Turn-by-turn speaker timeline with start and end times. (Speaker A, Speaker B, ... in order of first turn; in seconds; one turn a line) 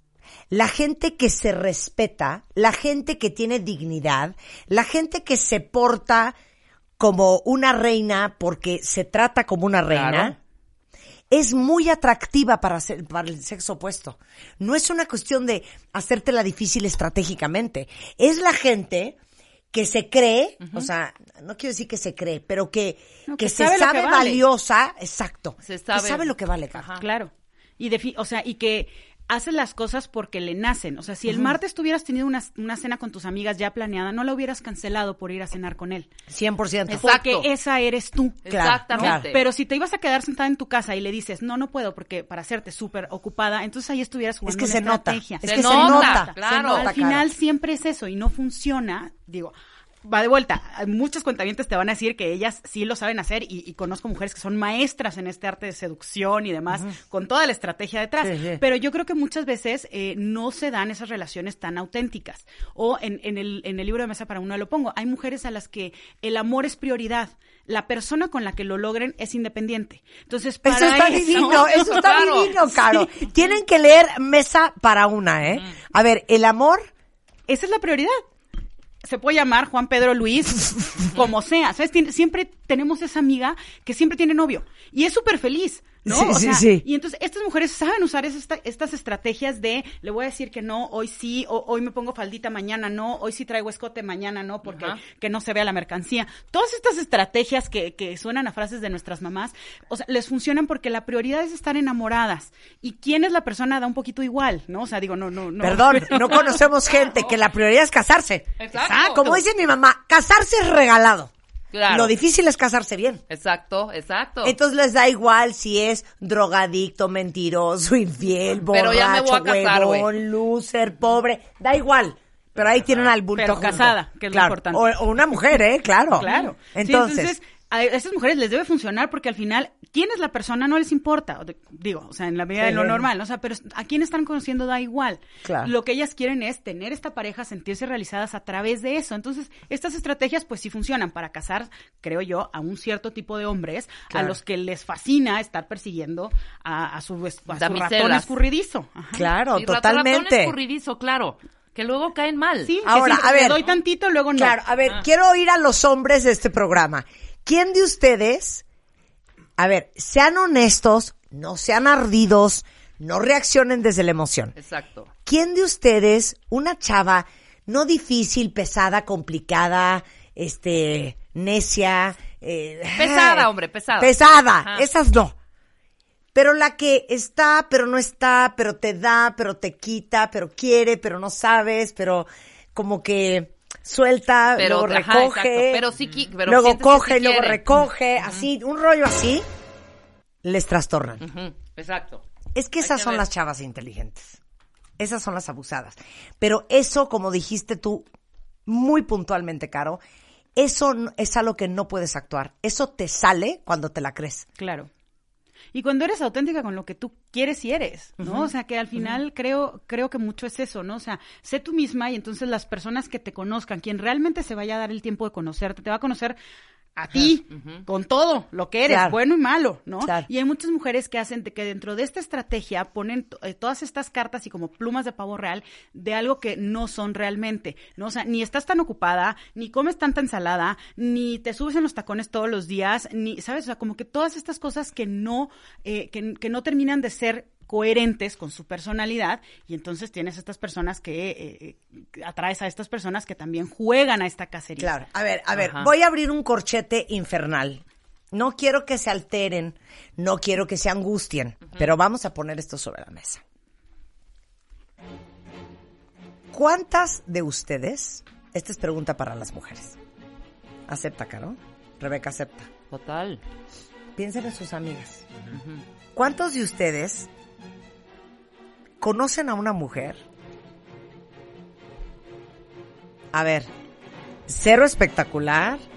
Speaker A: 0.5-6.3
Speaker A: 7.0-10.4
Speaker B: 9.9-10.3
Speaker A: 11.3-19.2
Speaker A: 19.7-26.9
Speaker B: 20.6-20.9
Speaker C: 23.3-24.4
Speaker B: 25.6-27.0
Speaker C: 27.0-36.1
Speaker A: 31.3-31.5
Speaker A: 36.3-37.1
Speaker C: 36.9-72.2
Speaker B: 36.9-37.5
Speaker B: 38.5-39.4
Speaker A: 38.5-39.3
Speaker A: 44.5-47.3
Speaker B: 45.4-46.9
Speaker A: 58.2-58.6
Speaker A: 70.6-76.9
Speaker B: 71.2-72.6
Speaker C: 77.5-78.2
Speaker C: 79.0-106.6
Speaker A: 86.1-86.8
Speaker B: 94.7-95.0
Speaker A: 105.6-111.3
Speaker B: 108.6-109.4
Speaker C: 108.8-109.4
Speaker B: 111.7-112.1
Speaker A: 111.9-113.2
Speaker B: 113.3-114.5
Speaker A: 114.4-127.4
Speaker B: 118.7-120.1
Speaker C: 123.4-124.8
Speaker C: 126.2-149.3
Speaker A: 132.6-133.1
Speaker A: 135.4-135.7
Speaker A: 144.1-144.4
Speaker B: 147.6-148.3
Speaker A: 149.1-150.6
Speaker B: 149.5-152.8
Speaker C: 152.6-154.6
Speaker A: 152.8-153.6
Speaker A: 154.4-158.6
Speaker A: 159.6-164.6
Speaker B: 164.6-165.1
Speaker A: 165.3-175.3
Speaker B: 173.0-174.9
Speaker A: 176.3-185.9
Speaker B: 184.6-187.6
Speaker A: 186.5-189.4
Speaker A: 190.4-191.2
Speaker B: 191.2-192.2
Speaker A: 192.6-194.4
Speaker B: 192.8-193.3
Speaker A: 195.0-198.1
Speaker A: 198.7-200.0
Speaker A: 200.6-204.5
Speaker C: 204.6-204.9
Speaker C: 205.7-216.4
Speaker A: 208.2-208.5
Speaker C: 217.0-244.9
Speaker B: 217.6-217.8
Speaker A: 218.9-219.2
Speaker A: 220.0-220.3
Speaker A: 244.8-253.4
Speaker B: 245.6-245.9
Speaker A: 256.5-260.0
Speaker A: 260.9-262.7
Speaker B: 262.9-263.4
Speaker A: 264.2-265.3
Speaker B: 265.5-265.8
Speaker A: 266.2-267.3
Speaker A: 269.0-270.2
Speaker A: 273.3-273.7
Speaker A: 274.5-275.8